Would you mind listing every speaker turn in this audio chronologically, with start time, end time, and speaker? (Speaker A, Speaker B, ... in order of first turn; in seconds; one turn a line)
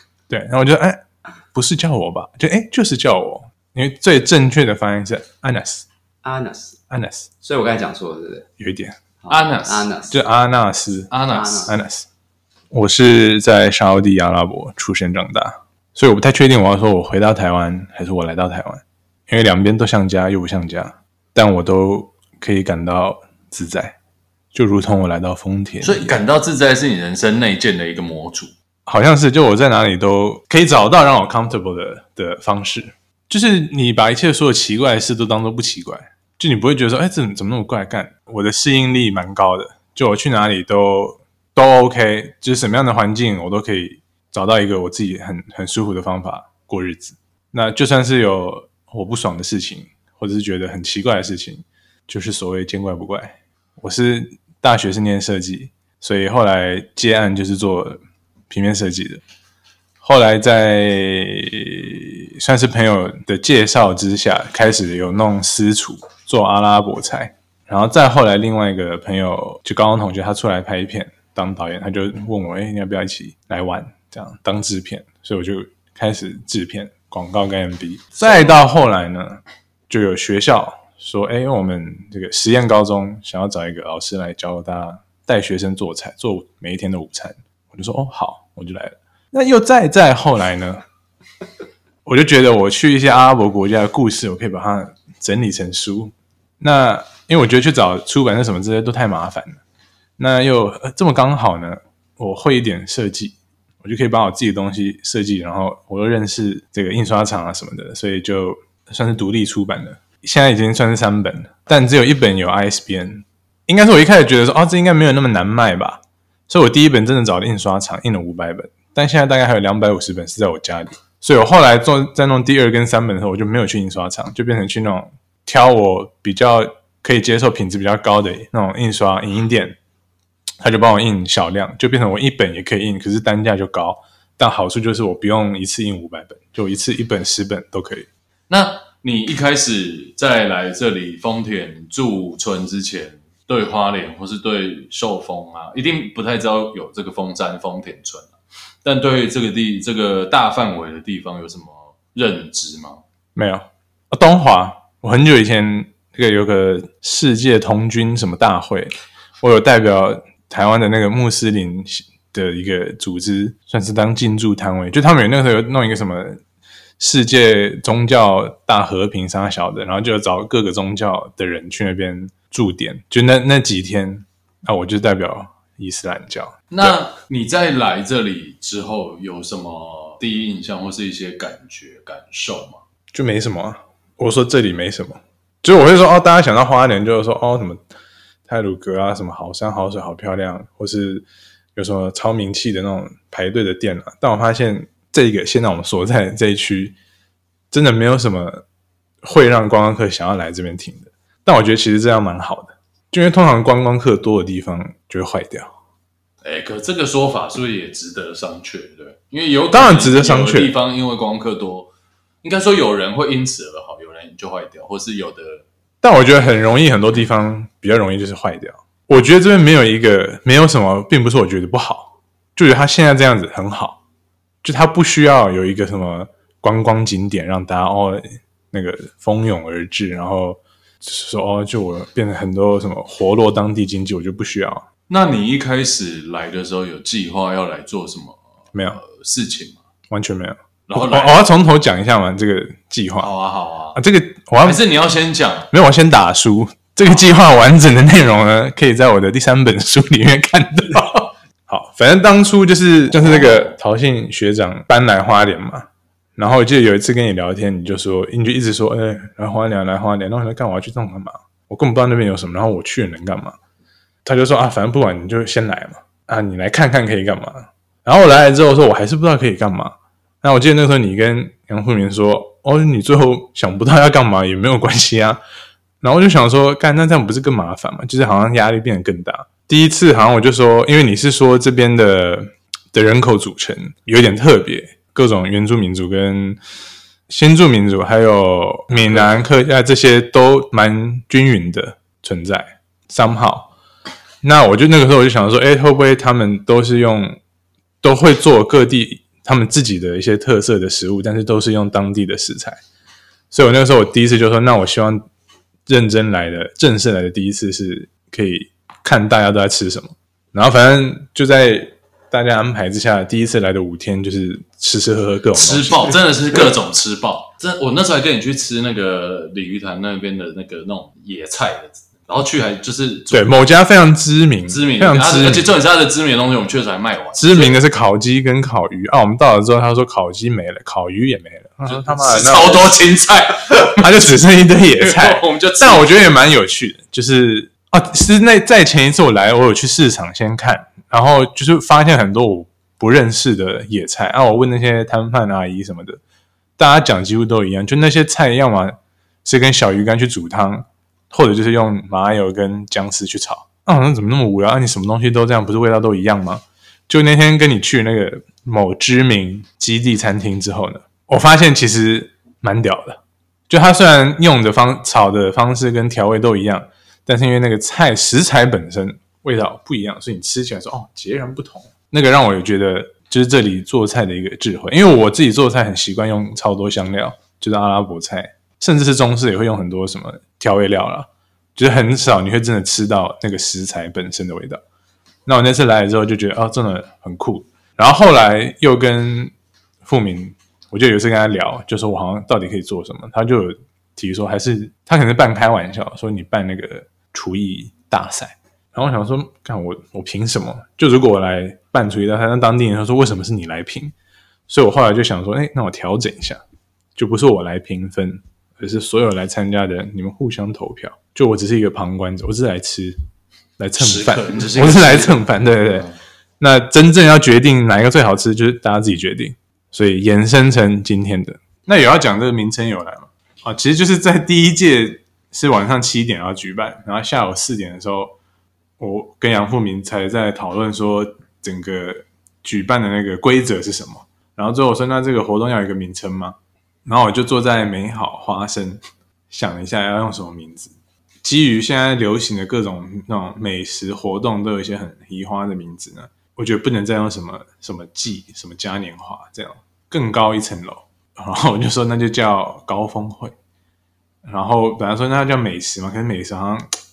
Speaker A: 0.3-1.0
Speaker A: 1.5-5.8
Speaker B: 6.2-6.8
Speaker A: 6.9-7.3
Speaker B: 7.4-8.5
Speaker A: 8.6-9.0
Speaker B: 9.2-10.1
Speaker C: 9.3-9.9
Speaker A: 10.1-12.1
Speaker C: 11.1-11.7
Speaker B: 11.3-11.7
Speaker A: 12.7-24.0
Speaker A: 24.5-26.2
Speaker C: 25.8-28.5
Speaker A: 28.9-59.2
Speaker A: 60.0-90.8
Speaker C: 78.2-78.6
Speaker A: 92.0-99.6
Speaker A: 100.2-129.8
Speaker A: 130.6-138.1
Speaker C: 138.5-148.3
Speaker C: 148.8-153.0
Speaker A: 153.3-166.4
Speaker A: 167.0-177.0
Speaker C: 176.7-182.8
Speaker A: 183.1-187.8
Speaker A: 188.5-197.0
Speaker A: 197.7-198.7
Speaker A: 199.2-205.7
Speaker C: 206.4-211.9
Speaker A: 209.7-210.8
Speaker C: 212.4-215.7
Speaker A: 216.0-224.0
Speaker A: 224.6-234.9
Speaker C: 235.1-238.4
Speaker A: 238.7-239.0
Speaker C: 238.9-239.8
Speaker A: 240.1-243.3
Speaker C: 240.9-241.4
Speaker C: 243.2-244.0
Speaker A: 243.9-244.8
Speaker C: 244.6-245.7
Speaker A: 245.7-263.6
Speaker C: 253.1-253.8
Speaker A: 264.2-275.4
Speaker A: 276.0-286.6
Speaker A: 287.3-293.7
Speaker C: 288.9-289.3
Speaker A: 294.4-297.4
Speaker A: 298.0-302.8
Speaker A: 303.5-305.3
Speaker A: 305.9-316.1
Speaker C: 315.5-323.7
Speaker A: 323.3-325.7
Speaker C: 324.7-327.8
Speaker A: 327.4-333.0
Speaker C: 331.9-334.3
Speaker A: 334.0-346.2
Speaker C: 335.0-336.3
Speaker A: 346.8-384.8
Speaker A: 385.5-404.1
Speaker A: 404.7-406.6
Speaker A: 407.1-413.2
Speaker A: 413.8-416.1
Speaker C: 414.0-416.2
Speaker A: 416.6-428.4
Speaker A: 429.0-453.6
Speaker A: 454.4-456.9